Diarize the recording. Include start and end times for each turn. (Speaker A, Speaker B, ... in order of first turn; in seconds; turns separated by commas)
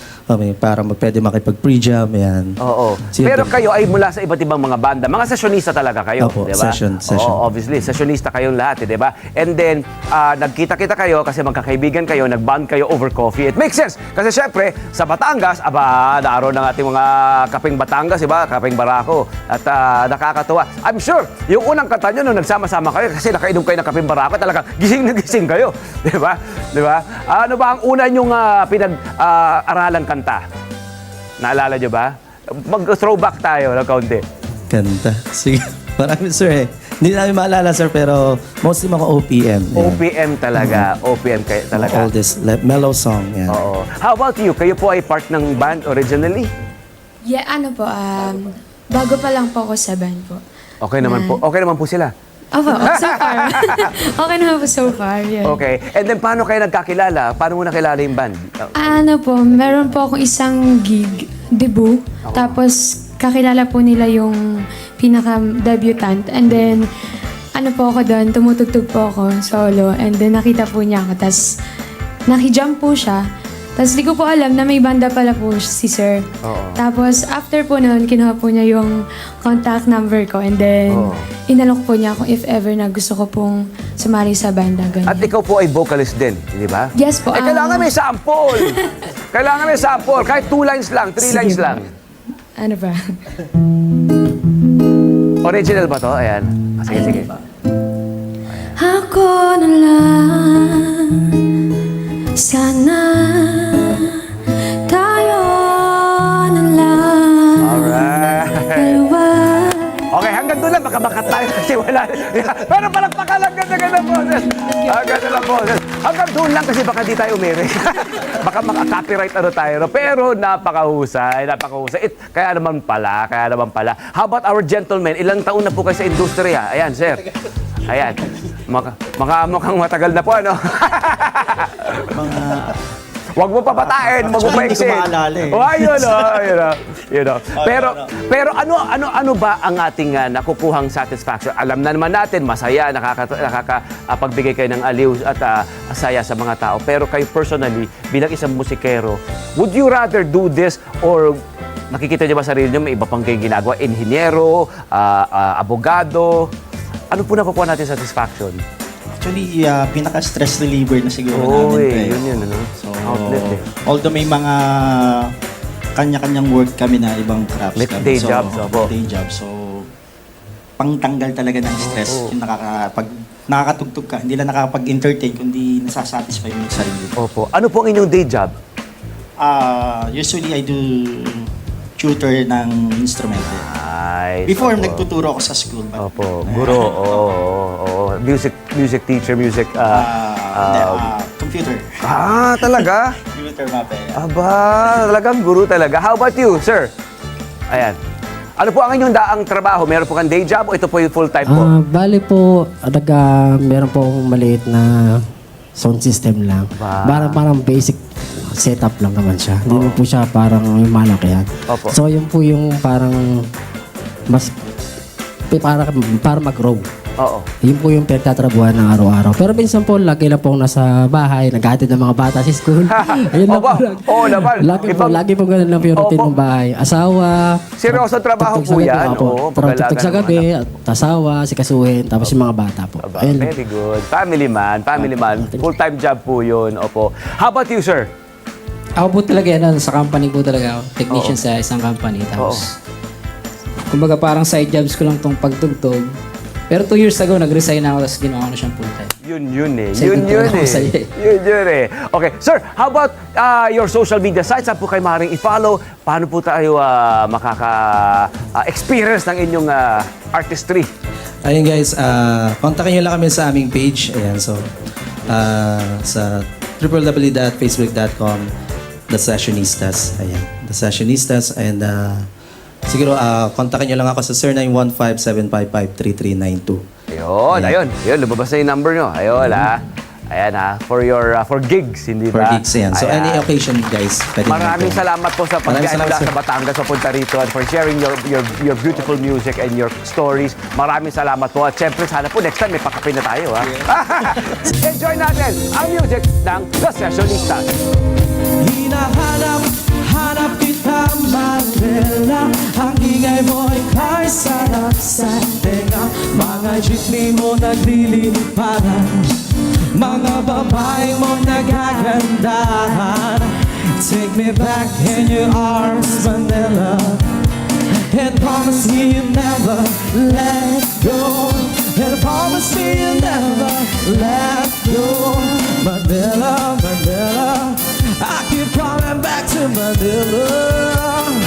Speaker A: 0.3-2.5, Speaker B: 2.6-30.4, Speaker A: 3.1-3.6, Speaker A: 6.2-7.4, Speaker B: 31.4-34.2, Speaker A: 34.7-40.0, Speaker B: 39.7-42.1, Speaker A: 40.5-40.9, Speaker A: 41.7-43.6, Speaker B: 43.5-46.5, Speaker C: 47.2-50.4, Speaker B: 50.8-52.1, Speaker C: 51.0-51.4, Speaker C: 52.5-55.6, Speaker B: 52.8-53.9, Speaker B: 55.4-59.0, Speaker C: 58.8-64.4, Speaker B: 62.3-62.5, Speaker C: 65.0-66.8, Speaker C: 67.5-71.4, Speaker C: 72.3-73.2, Speaker C: 73.8-85.3, Speaker B: 76.4-76.8, Speaker B: 80.9-81.2, Speaker B: 85.0-88.8, Speaker C: 87.0-87.9, Speaker C: 88.6-88.9, Speaker B: 89.3-91.9, Speaker C: 91.2-91.8, Speaker C: 92.6-93.1, Speaker B: 95.4-97.3, Speaker C: 96.9-97.3, Speaker C: 98.8-101.4, Speaker C: 102.3-104.3, Speaker C: 104.8-108.0, Speaker B: 107.6-109.0, Speaker C: 108.7-110.0, Speaker B: 110.1-127.2, Speaker B: 127.9-132.1, Speaker D: 132.1-132.8, Speaker B: 133.4-151.4, Speaker D: 133.7-136.4, Speaker D: 137.5-138.1, Speaker B: 151.9-156.5, Speaker B: 157.1-158.6, Speaker D: 159.2-165.3, Speaker B: 161.3-163.6, Speaker D: 165.9-169.8, Speaker B: 167.8-168.9, Speaker D: 170.8-177.1, Speaker B: 171.8-172.3, Speaker B: 177.2-178.5, Speaker D: 179.4-181.4, Speaker D: 182.0-183.7, Speaker B: 183.4-185.1, Speaker D: 184.4-187.3, Speaker B: 186.0-191.1, Speaker D: 189.9-191.9, Speaker B: 192.0-193.1, Speaker D: 193.3-194.2, Speaker B: 194.1-196.9, Speaker B: 197.7-198.0, Speaker B: 198.6-201.7, Speaker E: 201.4-205.2, Speaker E: 205.8-213.4, Speaker B: 206.8-207.4, Speaker B: 209.7-210.0, Speaker B: 211.7-211.9, Speaker E: 215.5-216.8, Speaker B: 217.2-217.5, Speaker E: 217.6-233.5, Speaker B: 222.9-225.2, Speaker B: 225.9-226.4, Speaker B: 227.8-230.5, Speaker B: 233.0-238.1, Speaker E: 234.9-235.7, Speaker F: 239.0-242.7, Speaker B: 241.1-241.4, Speaker B: 242.3-242.7, Speaker F: 243.9-246.2, Speaker F: 246.7-249.1, Speaker B: 249.2-260.9, Speaker F: 249.9-251.1, Speaker A: 261.4-264.6, Speaker A: 265.3-268.5, Speaker A: 269.1-272.3, Speaker A: 272.9-276.8, Speaker B: 277.1-283.5, Speaker A: 277.5-277.8, Speaker A: 282.3-285.0, Speaker B: 284.5-297.7, Speaker A: 285.6-286.3, Speaker G: 298.8-299.3, Speaker A: 298.8-299.6, Speaker G: 299.9-309.0, Speaker A: 300.2-305.6, Speaker A: 307.0-308.0, Speaker G: 309.9-317.2, Speaker A: 310.9-312.0, Speaker A: 316.1-316.5, Speaker G: 318.1-330.5, Speaker A: 320.4-321.2, Speaker A: 322.6-322.9, Speaker A: 323.9-325.3, Speaker A: 326.1-326.4, Speaker A: 327.0-327.6, Speaker A: 329.0-331.2